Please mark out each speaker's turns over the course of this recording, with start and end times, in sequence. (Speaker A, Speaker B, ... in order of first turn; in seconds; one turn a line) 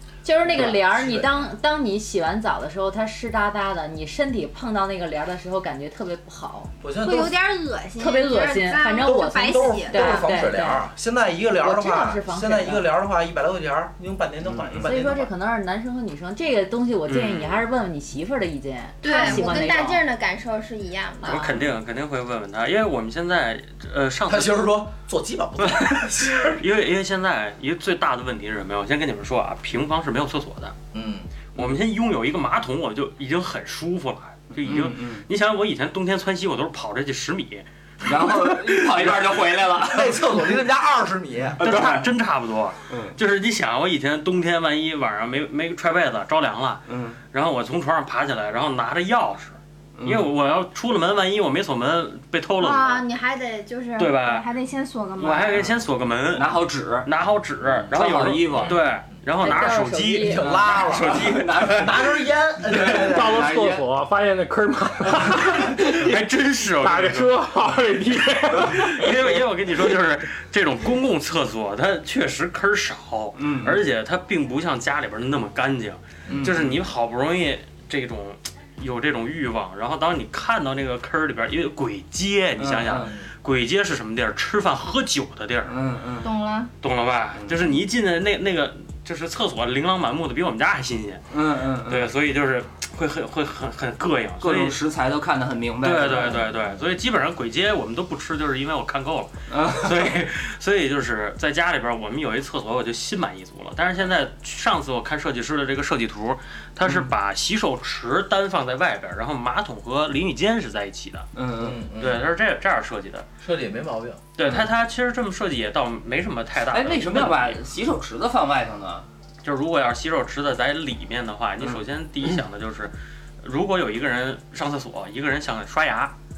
Speaker A: 0.2-6.7
Speaker B: 0.5-1.4
Speaker B: 6.8-7.3
Speaker C: 7.0-10.4
Speaker A: 8.0-10.9
Speaker B: 9.1-15.3
Speaker A: 11.6-12.9
Speaker D: 14.4-14.9
Speaker A: 14.8-20.0
Speaker E: 17.1-17.6
Speaker C: 19.0-21.5
Speaker A: 21.2-21.5
Speaker E: 21.2-24.7
Speaker B: 24.3-26.6
Speaker E: 25.6-30.8
Speaker B: 30.9-31.4
Speaker E: 31.6-37.7
Speaker D: 34.6-35.2
Speaker D: 38.0-40.6
Speaker B: 39.9-41.6
Speaker D: 41.6-42.1
Speaker E: 41.6-53.0
Speaker D: 42.9-43.2
Speaker D: 46.9-47.2
Speaker D: 50.0-50.3
Speaker C: 52.6-55.7
Speaker E: 54.0-54.5
Speaker E: 55.2-61.9
Speaker D: 56.3-57.1
Speaker D: 57.7-58.8
Speaker A: 59.4-60.4
Speaker B: 60.2-63.6
Speaker D: 60.4-63.9
Speaker F: 62.8-66.3
Speaker E: 65.7-67.4
Speaker F: 66.8-69.4
Speaker E: 68.5-85.8
Speaker D: 73.4-73.8
Speaker B: 76.3-76.7
Speaker D: 76.3-76.7
Speaker D: 82.6-83.1
Speaker D: 85.7-86.3
Speaker C: 86.2-86.7
Speaker E: 86.8-91.2
Speaker D: 87.3-87.6
Speaker D: 91.3-92.1
Speaker E: 91.9-94.8
Speaker D: 94.4-96.5
Speaker E: 95.8-111.3
Speaker D: 99.5-100.2
Speaker D: 106.8-107.1
Speaker D: 111.3-111.8
Speaker B: 111.6-112.3
Speaker E: 112.0-113.3
Speaker B: 113.4-114.2
Speaker E: 114.4-117.6
Speaker D: 116.7-119.1
Speaker E: 119.4-126.1